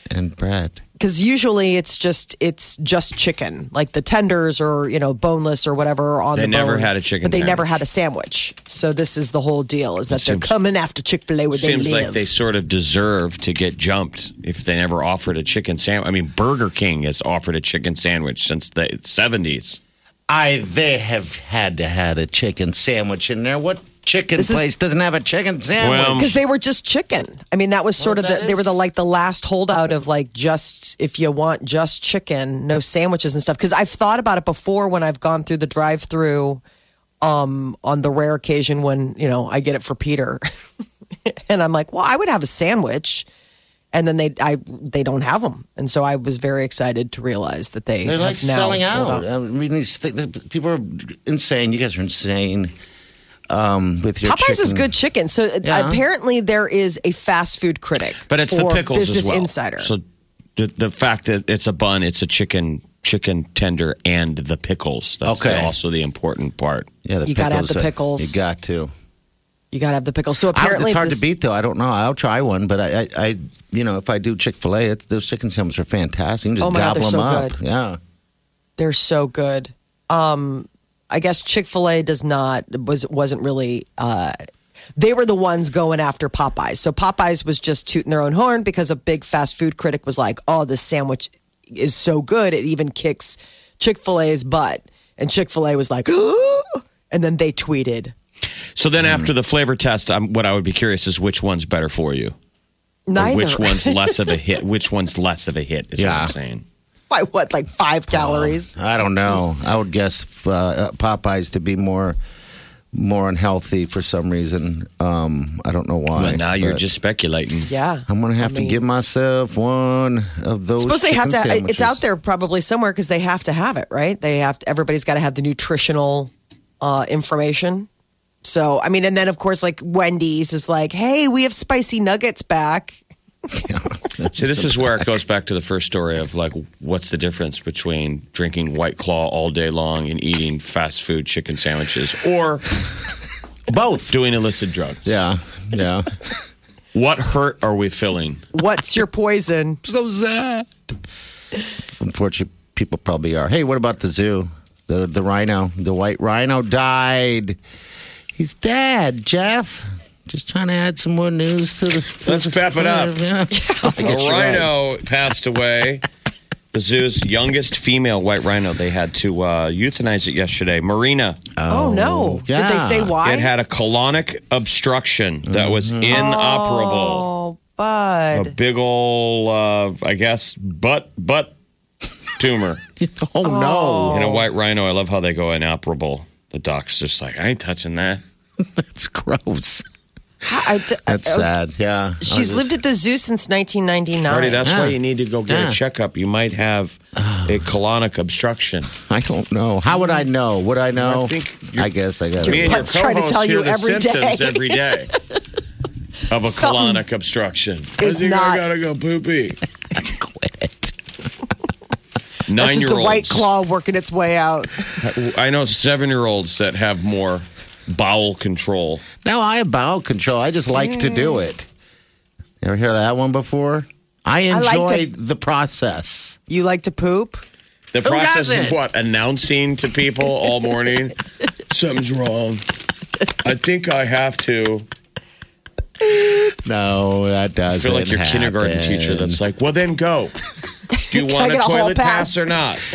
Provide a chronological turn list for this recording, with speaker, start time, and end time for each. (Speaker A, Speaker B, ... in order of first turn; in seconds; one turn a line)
Speaker A: 0.1-0.8
Speaker B: 1.0-12.3
Speaker C: 6.3-7.7
Speaker C: 10.1-10.5
Speaker C: 11.5-19.8
Speaker A: 20.3-26.4
Speaker B: 24.4-24.6
Speaker C: 25.8-26.4
Speaker B: 26.1-36.6
Speaker A: 28.0-28.8
Speaker B: 37.2-40.4
Speaker B: 41.3-43.3
Speaker B: 43.9-49.2
Speaker A: 48.0-52.7
Speaker A: 53.5-54.9
Speaker B: 54.2-59.9
Speaker A: 55.6-56.0
Speaker C: 58.3-60.0
Speaker C: 60.6-66.9
Speaker A: 65.2-65.7
Speaker A: 67.0-68.9
Speaker B: 67.2-68.4
Speaker B: 69.7-71.2
Speaker A: 70.5-78.0
Speaker B: 76.6-77.6
Speaker B: 78.8-84.4
Speaker B: 85.0-98.1
Speaker C: 98.8-102.3
Speaker A: 99.0-99.3
Speaker B: 103.1-104.2
Speaker C: 103.2-106.6
Speaker A: 106.0-106.3
Speaker B: 107.1-108.8
Speaker A: 108.1-112.2
Speaker A: 112.9-116.8
Speaker C: 116.2-117.7
Speaker B: 117.7-118.8
Speaker A: 118.1-122.0
Speaker B: 120.8-127.9
Speaker B: 128.4-133.0
Speaker A: 133.5-135.1
Speaker C: 134.3-142.7
Speaker A: 143.7-144.2
Speaker C: 144.1-145.2
Speaker A: 145.1-146.1
Speaker C: 146.9-148.4
Speaker B: 148.5-149.8
Speaker A: 149.8-150.7
Speaker A: 151.9-157.6
Speaker A: 158.3-164.7
Speaker C: 162.2-163.2
Speaker B: 163.5-164.0
Speaker C: 164.0-166.0
Speaker C: 166.7-171.4
Speaker A: 171.6-173.2
Speaker B: 171.7-173.5
Speaker C: 173.2-177.3
Speaker A: 175.5-176.2
Speaker B: 176.1-178.5
Speaker C: 178.3-181.5
Speaker C: 182.4-182.8
Speaker A: 183.0-184.2
Speaker B: 183.4-184.4
Speaker C: 184.1-188.2
Speaker A: 188.6-189.9
Speaker B: 190.4-191.5
Speaker A: 191.0-192.8
Speaker B: 192.2-194.6
Speaker C: 194.3-198.9
Speaker A: 194.6-195.8
Speaker A: 197.2-197.7
Speaker A: 199.0-202.9
Speaker C: 201.0-201.9
Speaker C: 202.4-205.1
Speaker B: 202.4-204.8
Speaker C: 206.3-209.6
Speaker B: 206.4-207.0
Speaker B: 208.0-208.6
Speaker A: 209.9-210.9
Speaker C: 212.5-213.5
Speaker B: 212.6-214.9
Speaker C: 215.0-219.1
Speaker A: 219.2-221.7
Speaker B: 220.8-221.4
Speaker A: 222.6-226.4
Speaker B: 224.5-225.1
Speaker B: 226.5-227.4
Speaker C: 227.9-231.2
Speaker A: 228.0-228.8
Speaker C: 231.7-232.6
Speaker C: 233.4-234.9
Speaker A: 236.1-239.4
Speaker C: 237.8-240.3
Speaker B: 241.0-242.4
Speaker C: 241.1-242.8